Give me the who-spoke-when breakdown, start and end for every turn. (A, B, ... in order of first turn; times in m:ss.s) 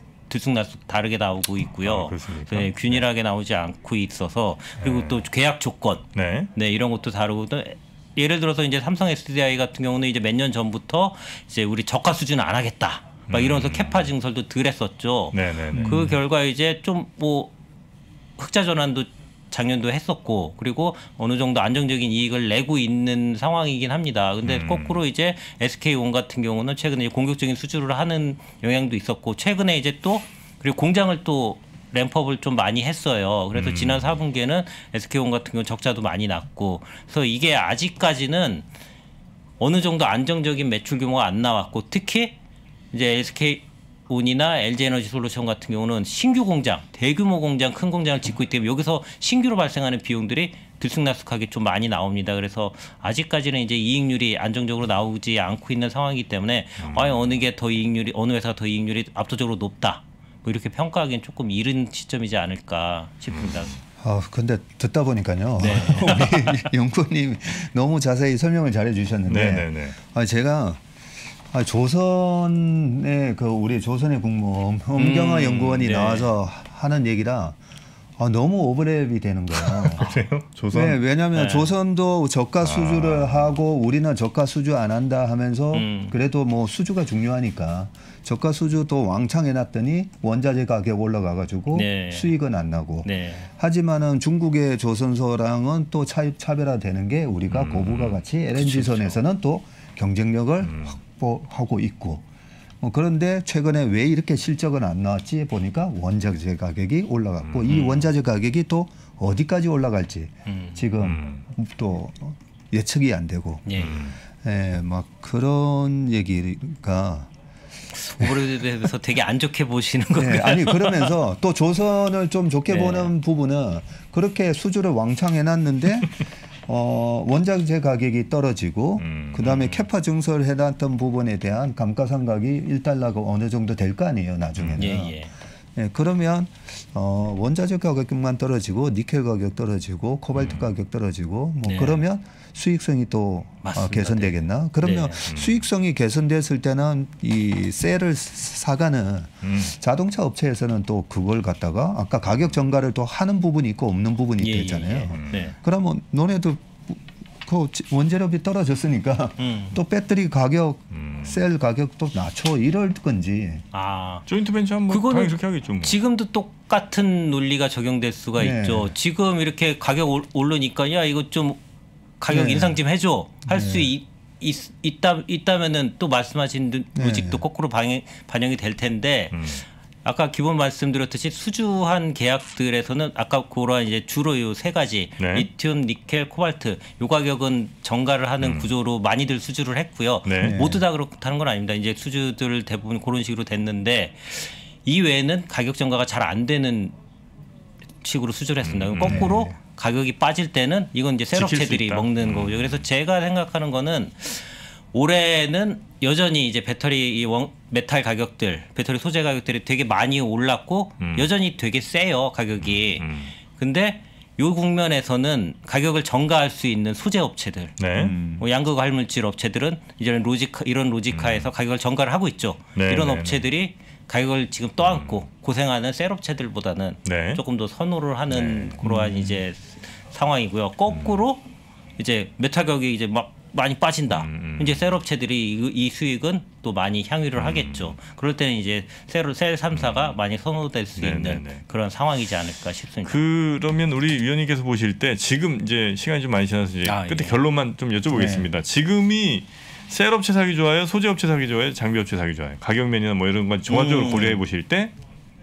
0:00.3-0:06.0 A
0:01.8-0:03.0 B
0:04.8-0:05.2 B
0:06.1-0:06.5 B
0:06.6-0:17.5 A
0:13.3-0:14.1 B
0:15.3-0:16.0 B
0:15.7-0:16.2 C
0:18.4-0:38.7 A
0:24.4-0:25.0 B
0:33.5-0:34.2 B
0:39.6-0:42.4 A
0:42.9-1:03.8 A
0:56.8-0:57.4 B
1:03.3-1:03.8 B
1:04.0-1:10.8 C
1:05.6-1:06.7 A
1:09.3-1:10.0 B
1:11.5-1:17.6 C
1:15.0-1:16.3 A
1:18.2-1:20.1 C
1:19.5-1:21.0 B
1:20.7-1:42.2 C
1:21.3-1:21.7 A
1:22.6-1:23.6 B
1:25.7-1:26.2 A
1:31.7-1:32.3 A
1:33.0-1:33.5 A
1:37.5-1:38.2 B
1:38.6-1:39.2 A
1:40.6-1:41.0 B
1:42.8-1:57.3 C
1:47.4-1:48.0 B
1:47.7-1:48.0 A
1:50.5-1:50.9 A
1:51.0-1:51.4 B
1:53.7-1:54.0 A
1:53.8-1:54.2 B
1:58.0-2:01.1 A
2:00.2-2:15.2 C
2:02.7-2:03.1 A
2:09.0-2:09.6 B
2:09.4-2:09.8 A
2:14.6-2:14.9 B
2:14.8-2:15.3 A
2:15.8-2:43.6 C
2:20.4-2:20.7 B
2:21.6-2:22.0 A
2:23.6-2:25.3 A
2:25.3-2:25.6 B
2:29.4-2:29.7 B
2:34.4-2:35.6 A
2:35.1-2:35.4 B
2:39.4-2:39.8 A
2:40.9-2:41.4 B
2:43.7-2:44.3 A
2:44.3-2:46.0 B
2:44.9-2:51.6 A
2:48.4-2:48.9 C
2:52.2-2:59.5 A
2:52.3-2:52.8 C
2:53.5-2:53.9 C
2:57.0-2:57.4 C
2:59.3-2:59.6 B
3:00.0-3:17.0 A
3:05.2-3:05.5 B
3:08.4-3:08.7 B
3:10.3-3:10.6 B
3:10.4-3:10.8 C
3:18.0-3:37.8 A
3:18.6-3:19.4 B
3:19.0-3:19.6 C
3:21.3-3:22.8 B
3:31.0-3:31.3 B
3:32.6-3:33.3 B
3:37.8-3:38.2 B
3:38.0-3:38.4 C
3:38.4-3:51.4 A
3:41.1-3:41.5 B
3:42.8-3:43.5 B
3:44.8-3:45.2 B
3:47.0-3:47.4 B
3:48.3-3:49.4 B
3:50.9-3:51.2 B
3:52.0-4:03.2 A
3:54.1-3:55.0 B
3:57.4-3:58.0 B
3:59.7-4:00.2 B
4:01.0-4:01.6 B
4:03.0-4:15.0 B
4:06.9-4:07.4 A
4:08.1-4:08.5 C
4:13.7-4:14.4 A